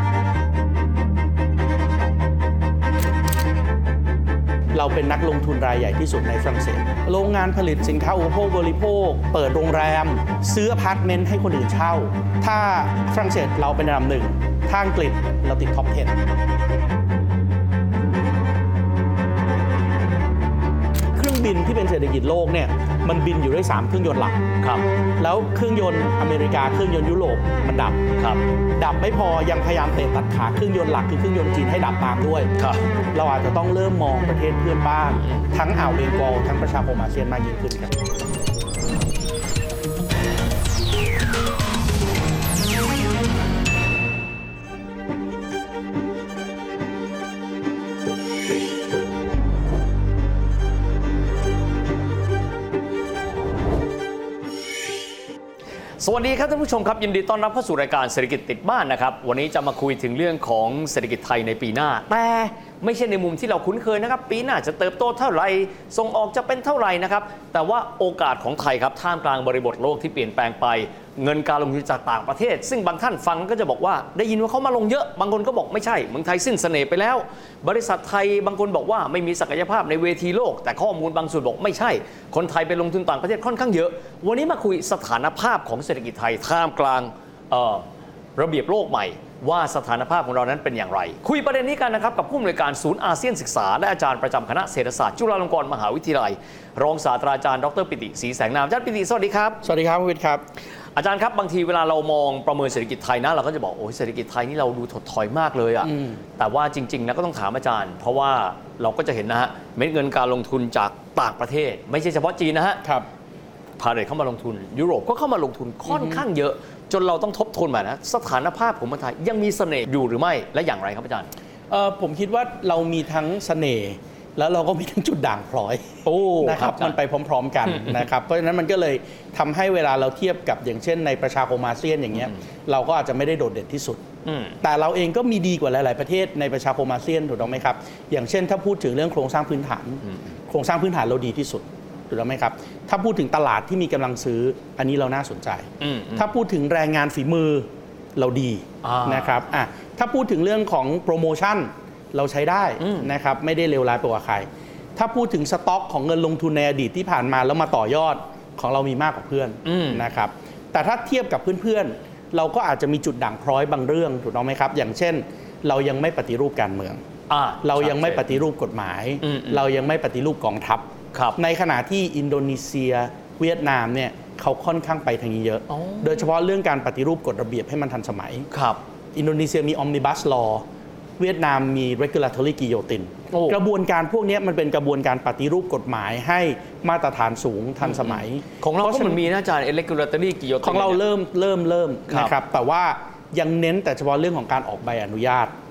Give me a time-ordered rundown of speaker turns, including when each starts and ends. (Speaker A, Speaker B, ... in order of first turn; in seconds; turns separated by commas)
Speaker A: 4.7-16.2, Speaker A: 21.1-24.4, Speaker B: 24.6-24.9, Speaker A: 25.2-28.0, Speaker B: 28.2-28.4, Speaker A: 28.8-32.5, Speaker B: 32.6-32.9, Speaker A: 33.1-37.9, Speaker B: 56.0-99.6, Speaker A: 99.6-100.4, Speaker B: 100.9-112.8, Speaker B: 113.8-121.3, Speaker A: 115.9-116.2, Speaker A: 121.7-134.0, Speaker B: 126.0-127.0, Speaker B: 127.7-128.0, Speaker B: 134.2-134.6, Speaker A: 134.6-167.0, Speaker B: 145.8-146.3, Speaker B: 148.8-149.4, Speaker B: 152.8-153.1, Speaker B: 159.6-160.1, Speaker B: 167.3-168.4, Speaker A: 167.6-178.5, Speaker B: 169.2-169.6, Speaker B: 171.1-171.4, Speaker B: 175.7-176.2, Speaker B: 178.5-178.8, Speaker A: 179.1-180.6, Speaker A: 181.2-189.2, Speaker B: 183.3-183.6, Speaker B: 187.8-191.0, Speaker A: 190.6-195.5, Speaker B: 192.1-192.3